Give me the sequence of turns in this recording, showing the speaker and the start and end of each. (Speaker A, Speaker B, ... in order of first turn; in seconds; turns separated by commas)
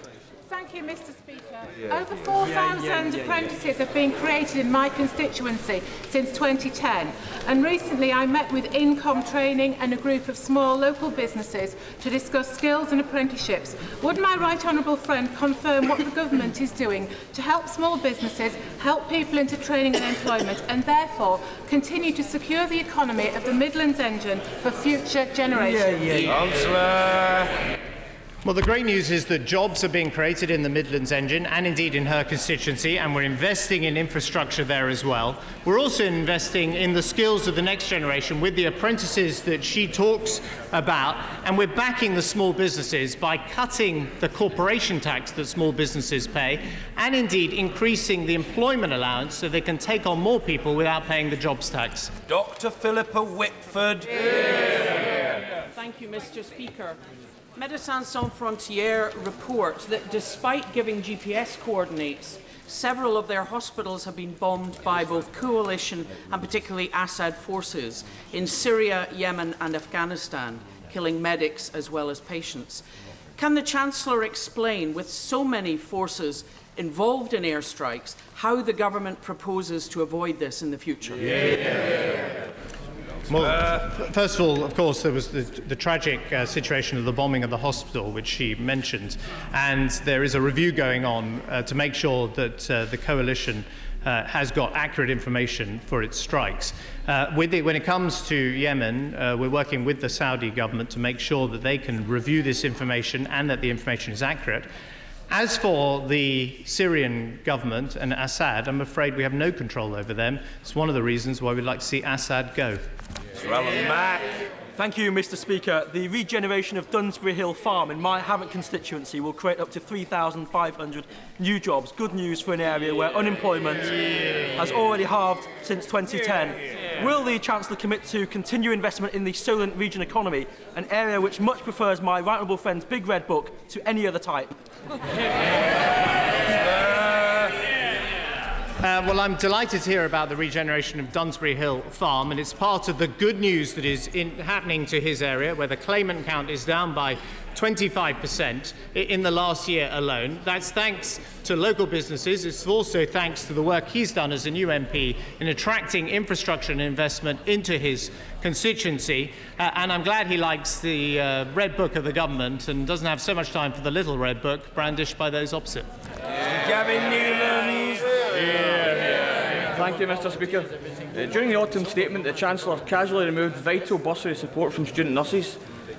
Speaker A: 0.5-26.4, Speaker B: 2.6-3.4, Speaker C: 26.2-27.5, Speaker D: 28.4-52.1, Speaker C: 52.3-54.1, Speaker E: 55.7-57.0, Speaker E: 57.5-72.8, Speaker E: 73.4-81.6, Speaker D: 83.3-104.7, Speaker D: 105.3-112.8, Speaker C: 113.4-114.2, Speaker B: 114.8-123.9, Speaker B: 124.5-134.5, Speaker D: 138.8-165.9, Speaker C: 166.6-168.0, Speaker F: 169.7-175.6